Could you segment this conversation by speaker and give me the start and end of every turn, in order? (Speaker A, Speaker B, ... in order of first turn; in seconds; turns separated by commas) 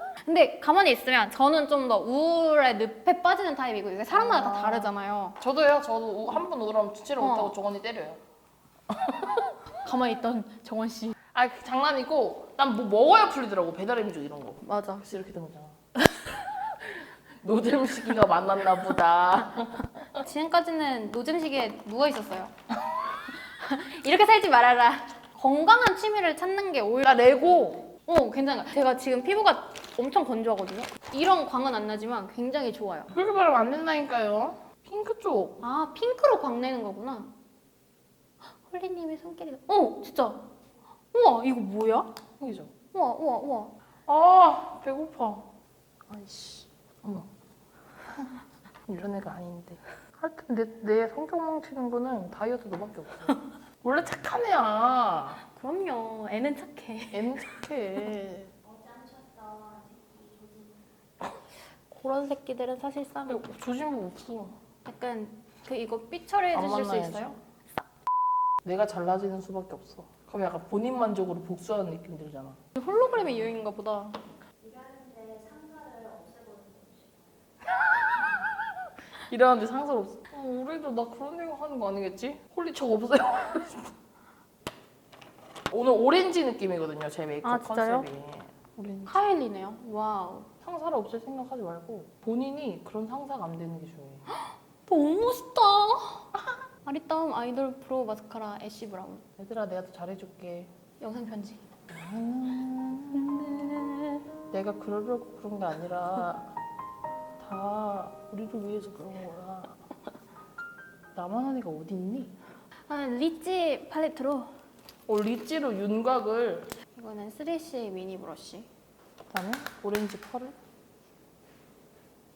Speaker A: 0.2-5.4, Speaker B: 4.1-8.2, Speaker A: 7.2-7.5, Speaker B: 8.9-9.5, Speaker A: 9.8-11.1, Speaker B: 11.3-19.9, Speaker A: 14.6-15.0, Speaker A: 20.1-22.5, Speaker A: 23.6-33.1, Speaker B: 27.0-27.9, Speaker B: 33.1-35.6, Speaker A: 35.6-37.3, Speaker A: 38.5-40.5, Speaker A: 41.1-42.1, Speaker B: 42.4-42.7, Speaker A: 42.9-43.7, Speaker B: 44.1-45.5, Speaker B: 46.1-47.3, Speaker B: 48.9-55.4, Speaker A: 55.5-57.6, Speaker B: 57.1-58.5, Speaker C: 58.9-60.6, Speaker A: 61.9-63.4, Speaker B: 63.3-64.5, Speaker A: 64.8-67.4, Speaker B: 66.5-67.3, Speaker B: 68.6-72.6, Speaker A: 72.7-74.2, Speaker C: 74.7-76.8, Speaker B: 79.3-84.0, Speaker B: 85.7-89.2, Speaker A: 87.4-88.1, Speaker A: 89.1-90.5, Speaker B: 90.6-94.2, Speaker A: 94.3-96.3, Speaker A: 96.8-99.2, Speaker B: 99.4-100.7, Speaker A: 101.0-101.6, Speaker B: 101.9-106.5, Speaker B: 107.4-109.8, Speaker B: 111.1-112.3, Speaker A: 112.9-114.5, Speaker B: 115.1-116.7, Speaker A: 116.9-118.7, Speaker B: 119.3-120.5